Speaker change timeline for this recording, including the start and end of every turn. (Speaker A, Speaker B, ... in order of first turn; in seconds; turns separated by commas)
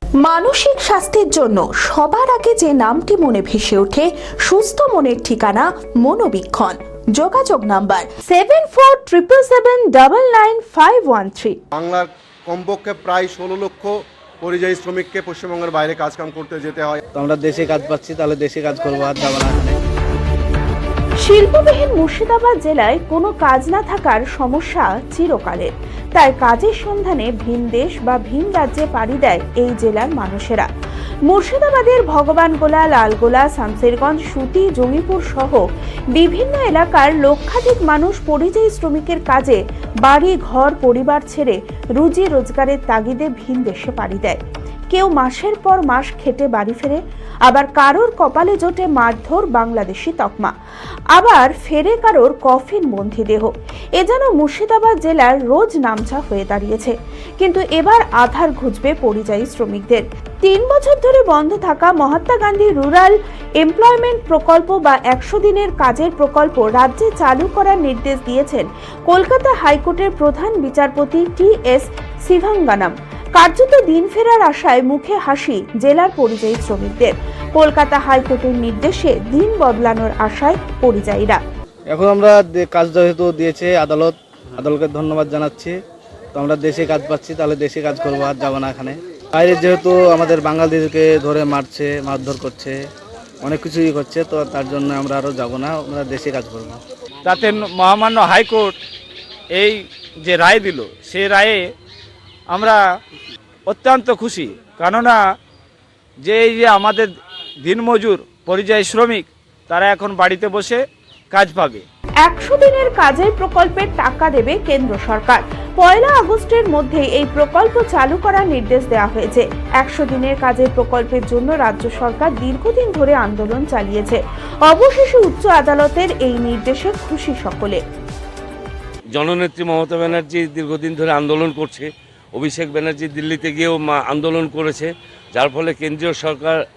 Speaker A: 0.2-11.6, Speaker B: 11.7-17.0, Speaker C: 17.1-19.8, Speaker A: 21.2-30.7, Speaker A: 31.3-35.6, Speaker A: 36.1-44.4, Speaker A: 44.9-50.5, Speaker A: 51.1-81.4, Speaker C: 81.9-85.8, Speaker C: 86.3-92.8, Speaker C: 93.4-96.8, Speaker D: 97.2-98.8, Speaker D: 99.5-101.7, Speaker D: 102.5-102.8, Speaker D: 103.7-105.2, Speaker D: 106.2-107.1, Speaker D: 107.6-111.8, Speaker A: 112.2-127.8, Speaker E: 129.1-136.6